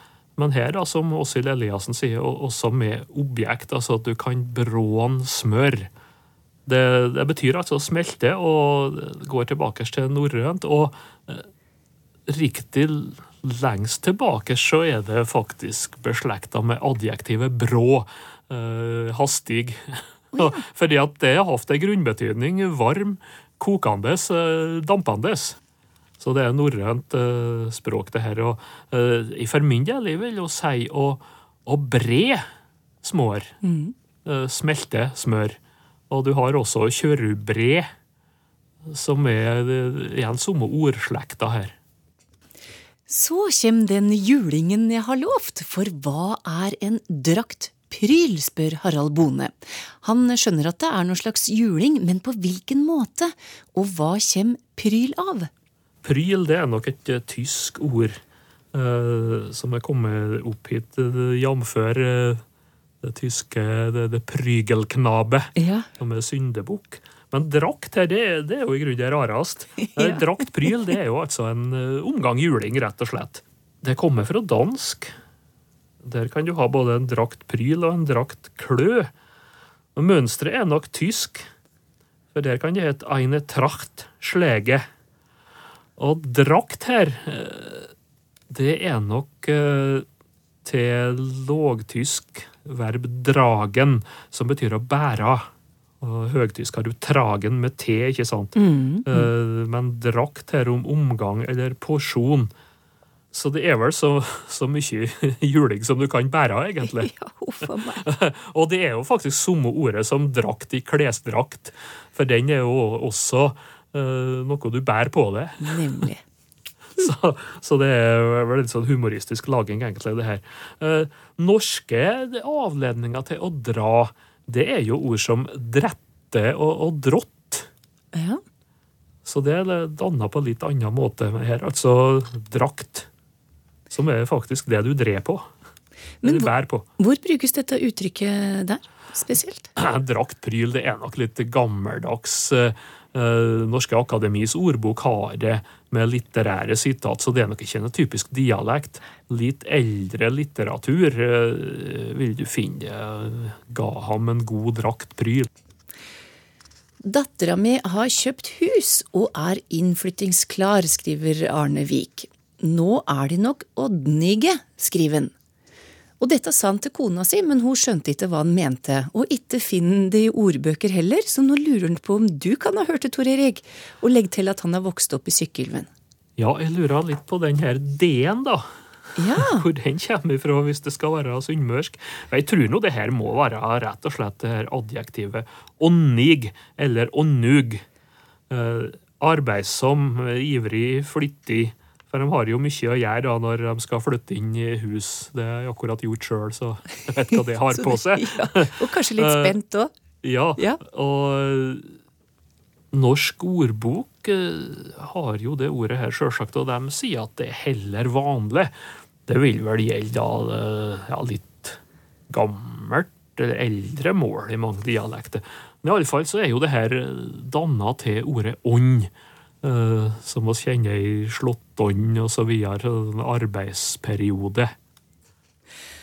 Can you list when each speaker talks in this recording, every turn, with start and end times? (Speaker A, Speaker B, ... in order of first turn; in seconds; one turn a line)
Speaker A: 0.4-5.9
Speaker A: 6.7-11.5
Speaker A: 12.3-25.6
Speaker B: 20.3-20.6
Speaker A: 26.2-32.5
Speaker A: 33.0-33.5
Speaker B: 33.6-33.9
Speaker A: 34.3-35.6
Speaker A: 36.1-37.9
Speaker A: 38.9-41.8
Speaker B: 43.1-55.5
Speaker A: 56.0-58.2
Speaker A: 58.7-62.4
Speaker A: 63.0-75.1
Speaker B: 65.6-65.9
Speaker B: 69.8-70.9
Speaker A: 76.0-79.1
Speaker A: 80.0-81.5
Speaker A: 82.3-84.8
Speaker A: 86.0-87.9
Speaker A: 88.5-90.1
Speaker A: 90.7-95.5
Speaker A: 96.0-102.5
Speaker B: 98.6-99.3
Speaker A: 103.3-107.1
Speaker B: 106.8-108.1
Speaker A: 108.0-115.9
Speaker B: 115.6-116.2
Speaker A: 117.0-127.7
Speaker B: 128.1-128.4
Speaker A: 129.2-133.1
Speaker A: 133.9-135.5
Speaker B: 136.2-139.7
Speaker A: 136.2-136.8
Speaker A: 139.8-155.5
Speaker B: 157.0-165.3
Speaker B: 166.2-175.9
Speaker A: 176.4-178.7
Speaker B: 179.2-179.7
Speaker A: 179.3-187.8
Speaker A: 188.5-199.6
Speaker B: 197.7-199.9
Speaker A: 200.2-201.9
Speaker A: 202.9-208.7
Speaker A: 209.3-219.1
Speaker A: 219.6-224.7